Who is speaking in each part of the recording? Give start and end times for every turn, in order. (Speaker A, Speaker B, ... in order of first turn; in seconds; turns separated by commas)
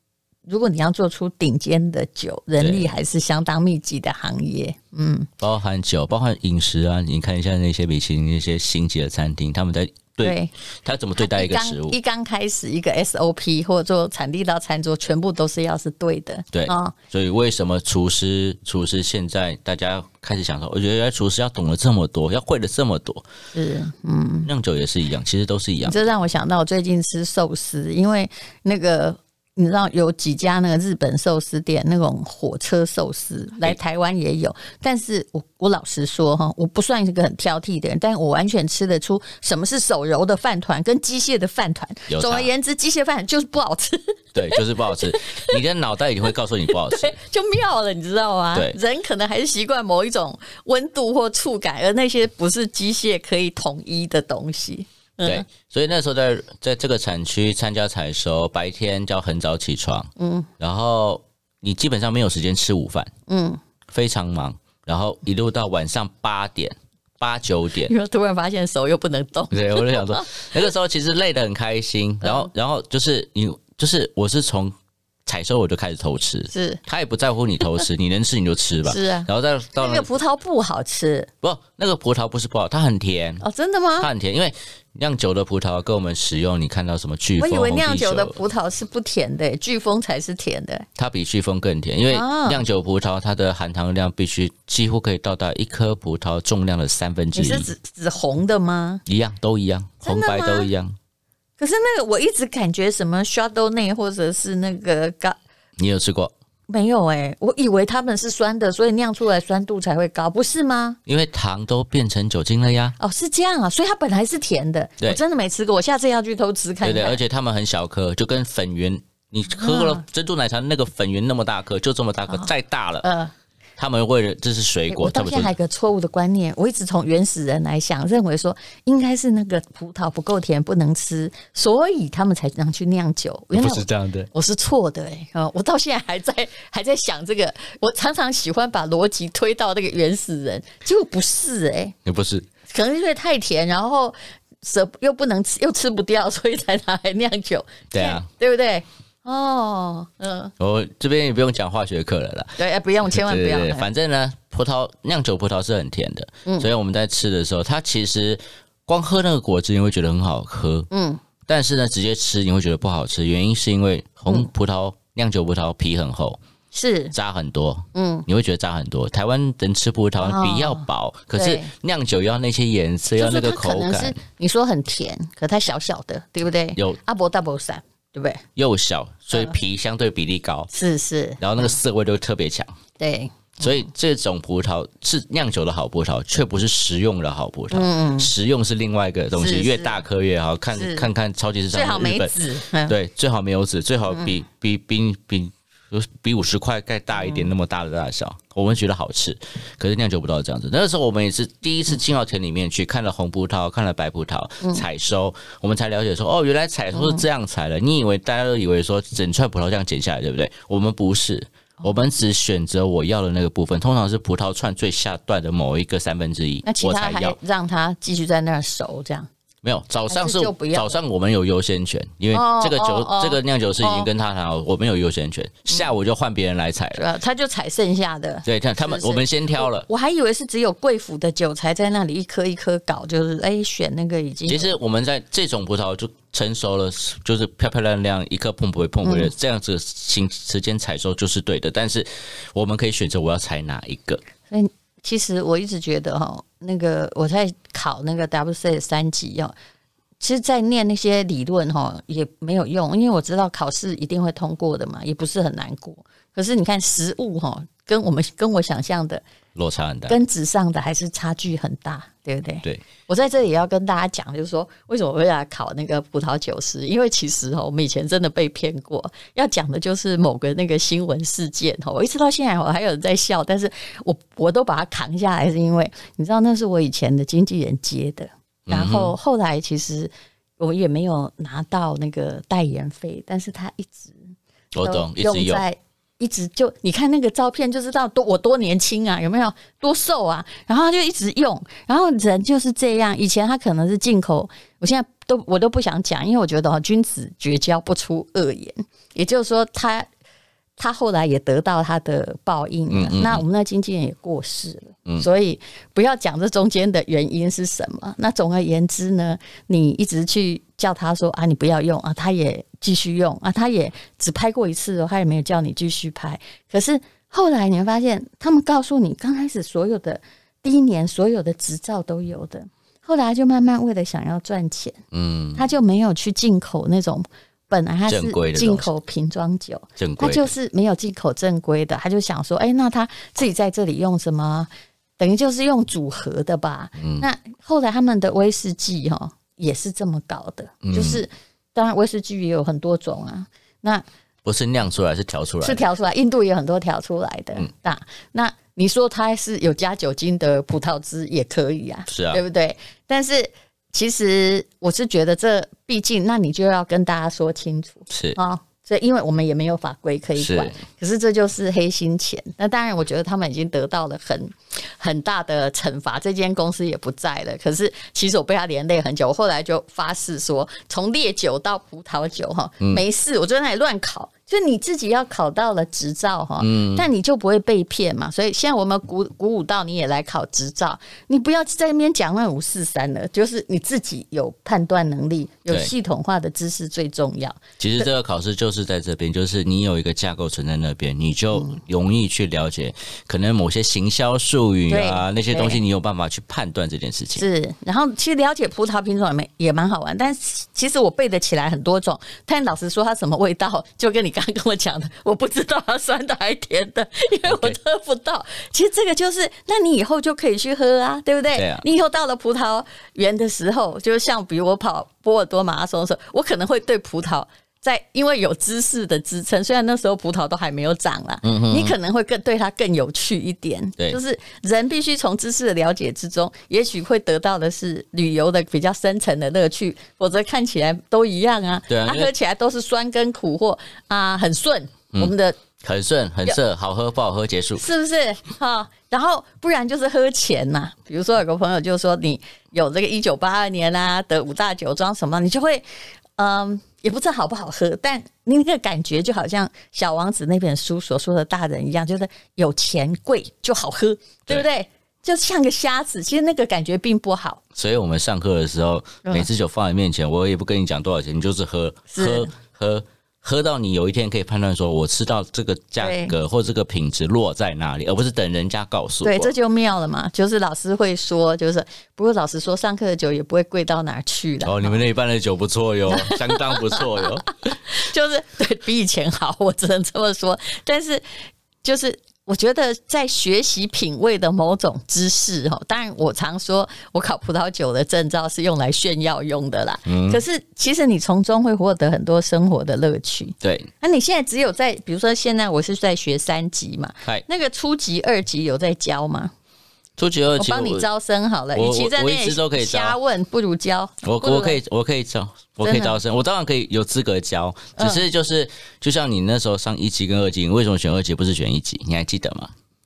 Speaker A: 0.5-5.3, Speaker B: 2.6-2.9, Speaker B: 5.4-12.0, Speaker A: 10.2-10.5, Speaker A: 11.2-16.9, Speaker B: 16.5-23.2, Speaker A: 23.5-24.5, Speaker B: 24.4-26.1, Speaker A: 25.8-45.6, Speaker B: 42.1-42.5, Speaker B: 44.3-47.2, Speaker A: 46.7-55.5, Speaker B: 55.2-63.1, Speaker A: 60.2-60.5, Speaker A: 63.3-63.6, Speaker B: 63.9-67.9, Speaker A: 67.9-70.4, Speaker B: 69.5-74.7, Speaker A: 72.2-72.5, Speaker B: 75.2-80.1, Speaker A: 76.5-76.8, Speaker A: 78.8-81.3, Speaker B: 81.4-83.4, Speaker A: 83.4-84.1, Speaker B: 84.0-88.4, Speaker A: 87.4-90.9, Speaker B: 91.0-97.7, Speaker A: 92.1-92.6, Speaker A: 97.3-99.0, Speaker B: 99.0-101.0, Speaker A: 100.0-100.7, Speaker A: 101.6-105.4, Speaker B: 105.8-106.3, Speaker A: 106.7-111.0, Speaker B: 111.0-113.0, Speaker A: 113.0-117.2, Speaker B: 116.8-123.1, Speaker A: 119.5-120.0, Speaker A: 123.0-123.3, Speaker B: 123.8-125.5, Speaker A: 124.9-142.0, Speaker B: 133.5-134.3, Speaker B: 142.0-142.5, Speaker A: 142.7-150.5, Speaker B: 147.9-148.3, Speaker B: 150.6-160.9, Speaker A: 152.6-153.9, Speaker A: 160.9-161.2, Speaker B: 161.4-166.4, Speaker A: 166.7-167.1, Speaker B: 167.1-174.2, Speaker A: 167.9-168.2, Speaker A: 170.2-171.7, Speaker A: 173.2-178.4, Speaker B: 178.6-180.7, Speaker A: 180.7-181.7, Speaker B: 181.4-182.7, Speaker A: 183.0-183.9, Speaker B: 183.6-217.4, Speaker A: 187.7-188.3, Speaker A: 189.4-190.0, Speaker A: 190.7-191.1, Speaker A: 191.7-192.9, Speaker A: 197.2-197.5, Speaker A: 206.9-207.2, Speaker A: 216.6-219.3, Speaker B: 219.6-227.0, Speaker A: 220.1-221.0, Speaker A: 222.3-224.1, Speaker A: 226.9-234.7, Speaker B: 228.4-229.9, Speaker B: 234.5-244.2, Speaker A: 239.0-239.3, Speaker A: 244.5-249.5, Speaker A: 250.2-259.2, Speaker B: 259.5-260.2, Speaker A: 260.1-284.2, Speaker B: 278.7-279.1, Speaker B: 284.7-285.6, Speaker A: 284.8-300.1, Speaker A: 300.8-325.0, Speaker B: 302.9-303.4, Speaker B: 325.1-325.6, Speaker A: 325.6-344.0, Speaker B: 328.1-328.9, Speaker B: 330.0-330.5, Speaker B: 337.0-337.2, Speaker B: 340.8-341.2, Speaker B: 344.4-345.8, Speaker A: 345.6-388.1, Speaker B: 352.1-352.4, Speaker B: 358.1-358.4, Speaker B: 360.4-360.8, Speaker B: 376.6-377.1, Speaker B: 387.8-397.4, Speaker A: 394.9-395.8, Speaker A: 397.3-435.6, Speaker B: 407.5-407.8, Speaker B: 411.5-411.8, Speaker B: 421.4-421.9, Speaker B: 431.9-432.3, Speaker B: 435.1-437.8, Speaker A: 437.8-445.9, Speaker A: 446.4-457.6, Speaker B: 457.7-469.5, Speaker A: 462.1-462.5, Speaker A: 466.0-466.3, Speaker A: 469.2-475.0, Speaker B: 474.6-477.5, Speaker A: 476.1-481.2, Speaker A: 481.8-499.5, Speaker B: 490.1-490.4, Speaker B: 493.6-493.9, Speaker B: 500.2-501.1, Speaker A: 500.6-504.8, Speaker B: 501.7-503.2, Speaker B: 504.2-512.7, Speaker A: 505.8-506.1, Speaker A: 508.0-508.2